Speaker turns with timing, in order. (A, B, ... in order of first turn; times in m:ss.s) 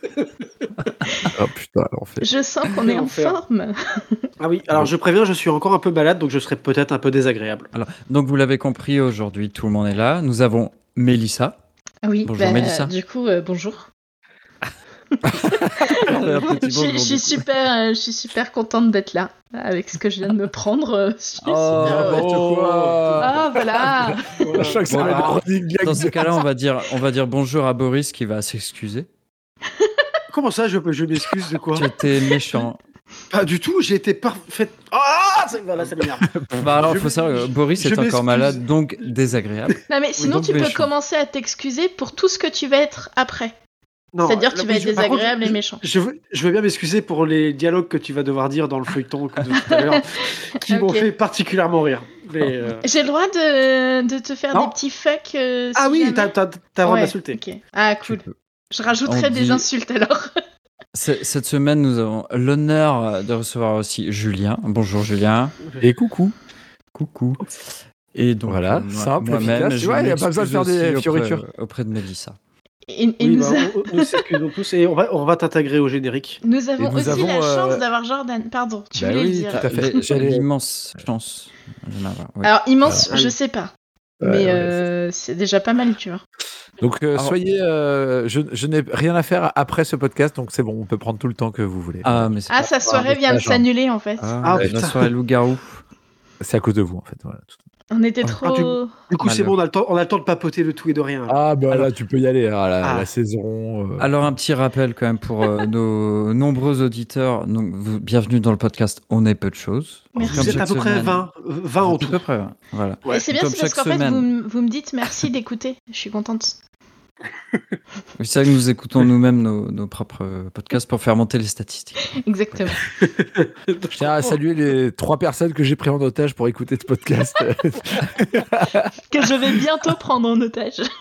0:00.8-0:01.3 A
0:01.3-0:02.2 B
0:02.2-0:04.3 C
0:02.8-0:03.4 D
0:04.4-0:07.7 D
0:07.7-0:11.6 A
0:12.0-0:13.9 C
0:12.2-0:12.9 A
0:15.2-0:16.2 B
0:15.3-0:22.2 C
0:15.9-0:17.4 A
0:21.4-0:22.2 A
0:21.8-0:26.5 B
0:22.1-0:23.3 D
0:23.2-0:24.2 C
0:24.4-0:25.4 D
0:24.9-0:29.1 A
0:29.8-0:30.0 C
0:30.3-0:31.9 D
0:31.7-0:32.8 A
0:33.3-0:38.6 D
0:36.2-0:36.7 B
0:36.5-0:40.9 A
0:39.9-0:43.5 C
0:44.1-0:52.9 D
0:44.2-0:45.8 C
0:49.6-0:50.0 C
0:50.7-0:51.1 C
0:52.8-0:56.3 C
0:55.8-0:57.4 D
0:56.8-1:00.3 C
0:59.0-0:59.7 A
1:00.9-1:05.6 A
1:05.8-1:06.3 B
1:06.9-1:07.4 A
1:08.1-1:12.4 A
1:08.5-1:11.4 B
1:12.9-1:14.2 C
1:13.2-1:16.4 D
1:16.4-1:20.0 C
1:16.8-1:17.8 B
1:19.0-1:20.5 B
1:19.5-1:22.5 A
1:22.4-1:23.7 C
1:24.2-1:24.8 B
1:24.2-1:26.2 C
1:26.8-1:33.6 B
1:32.0-1:32.6 A
1:32.5-1:34.3 C
1:34.2-1:35.8 A
1:34.4-1:35.0 D
1:36.4-1:37.5 B
1:37.9-1:38.9 C
1:38.4-1:41.9 D
1:39.2-1:39.6 A
1:41.3-1:44.1 B
1:42.8-1:43.1 D
1:44.0-1:51.2 A
1:50.2-1:52.2 D
1:50.2-1:50.6 C
1:51.8-1:54.3 A
1:53.1-1:56.6 C
1:58.2-2:02.1 A
2:02.2-2:02.8 C
2:03.0-2:04.4 D
2:03.9-2:08.9 B
2:09.1-2:10.9 C